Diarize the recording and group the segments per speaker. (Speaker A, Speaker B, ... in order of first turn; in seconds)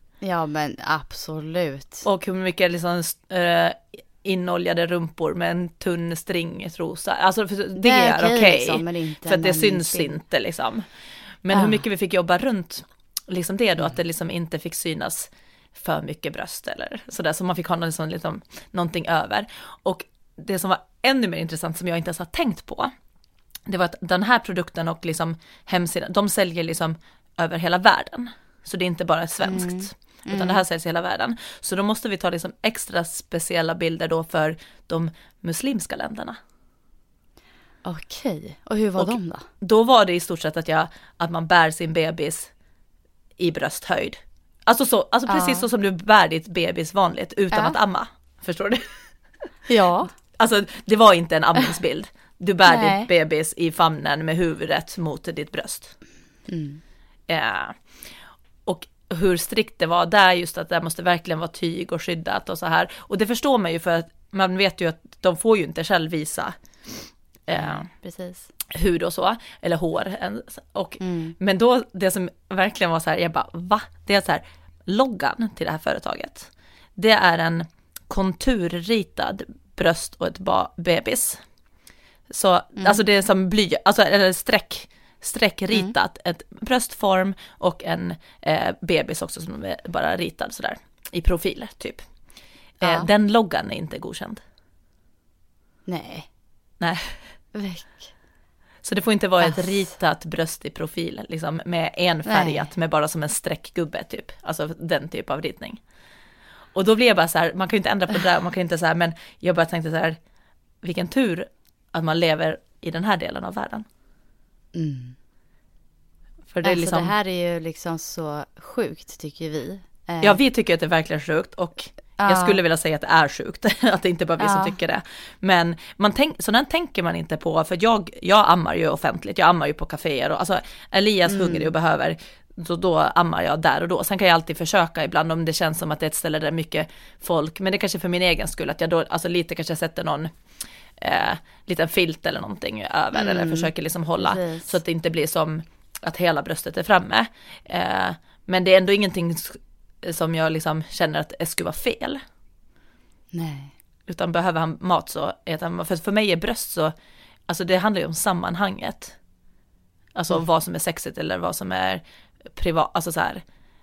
Speaker A: 0.2-2.0, 7.8-10.2, 11.5-11.8, 29.4-30.6, 37.8-39.4, 45.3-45.7, 49.7-50.1, 52.6-53.1, 56.5-56.8, 67.5-68.5, 71.0-71.3, 82.8-83.0, 92.8-93.1, 95.9-96.3, 97.5-98.1, 99.4-99.9, 102.2-102.7, 114.7-115.2, 116.6-120.4, 122.2-122.6, 124.4-124.8, 131.3-131.7, 143.1-144.7, 153.3-153.7
Speaker B: 2.0-10.8, 11.4-22.9, 23.7-36.4, 39.0-42.5, 43.4-48.9, 50.4-55.9, 57.3-57.8, 58.6-67.0, 67.5-67.9, 68.7-81.4, 82.3-92.0, 92.8-94.4, 96.8-97.2, 98.8-105.8, 106.7-110.2, 110.8-113.8, 116.5-117.1, 120.2-140.3, 141.0-152.2, 154.1-156.9, 157.5-159.2, 160.1-163.4